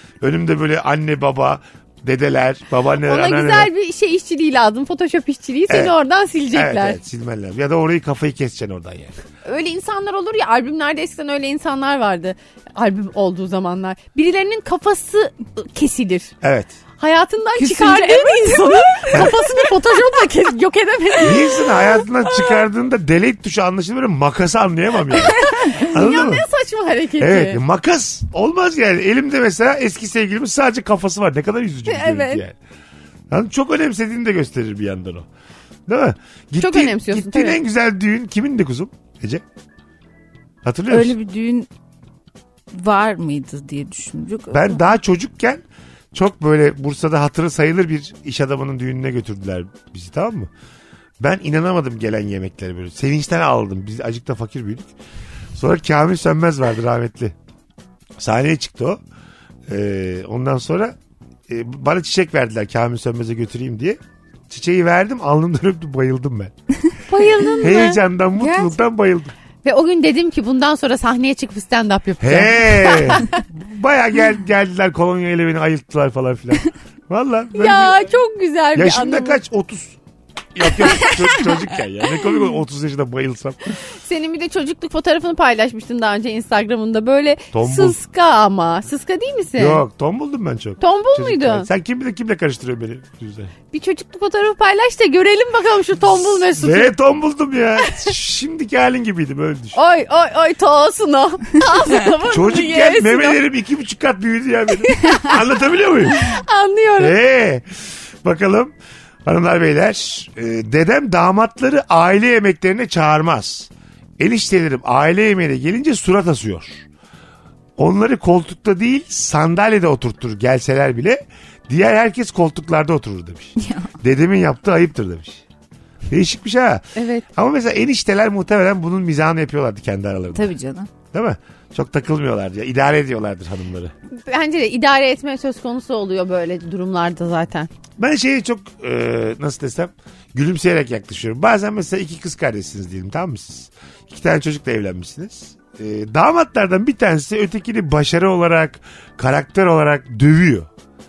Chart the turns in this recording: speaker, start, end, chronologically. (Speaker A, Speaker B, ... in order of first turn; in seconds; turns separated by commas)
Speaker A: 0.2-3.7, Speaker B: 3.0-7.0, Speaker A: 5.7-5.9, Speaker A: 6.5-9.1, Speaker B: 9.4-16.3, Speaker A: 16.4-16.7, Speaker B: 17.0-21.7, Speaker C: 17.6-19.5, Speaker A: 21.2-26.4, Speaker C: 25.4-25.8, Speaker B: 25.4-27.6, Speaker A: 27.2-32.5, Speaker B: 31.9-32.4, Speaker A: 33.3-35.3, Speaker A: 35.9-39.4, Speaker B: 36.6-37.6, Speaker A: 40.6-41.1, Speaker C: 40.9-41.7, Speaker C: 42.7-44.8, Speaker A: 44.5-50.5, Speaker A: 51.2-54.9, Speaker A: 55.5-57.3, Speaker A: 58.2-59.0, Speaker A: 59.7-60.9, Speaker A: 61.5-64.0, Speaker A: 64.5-66.5, Speaker B: 67.1-68.0, Speaker A: 67.6-69.3, Speaker C: 68.4-68.7, Speaker B: 69.6-73.4, Speaker A: 72.2-78.0, Speaker B: 77.5-79.4, Speaker A: 78.7-80.0, Speaker A: 80.5-83.7, Speaker B: 84.0-89.8, Speaker A: 87.5-88.0, Speaker A: 89.6-93.5, Speaker B: 90.8-91.7, Speaker B: 93.7-96.9, Speaker A: 96.4-99.8, Speaker B: 99.7-103.4, Speaker A: 102.3-106.2, Speaker B: 106.1-107.2, Speaker A: 107.0-108.7, Speaker A: 109.2-116.8, Speaker A: 117.8-125.4, Speaker C: 123.6-123.9, Speaker A: 126.1-130.5, Speaker B: 127.0-127.3, Speaker C: 130.3-130.9, Speaker A: 131.1-133.9, Speaker B: 134.2-137.7, Speaker A: 138.0-150.7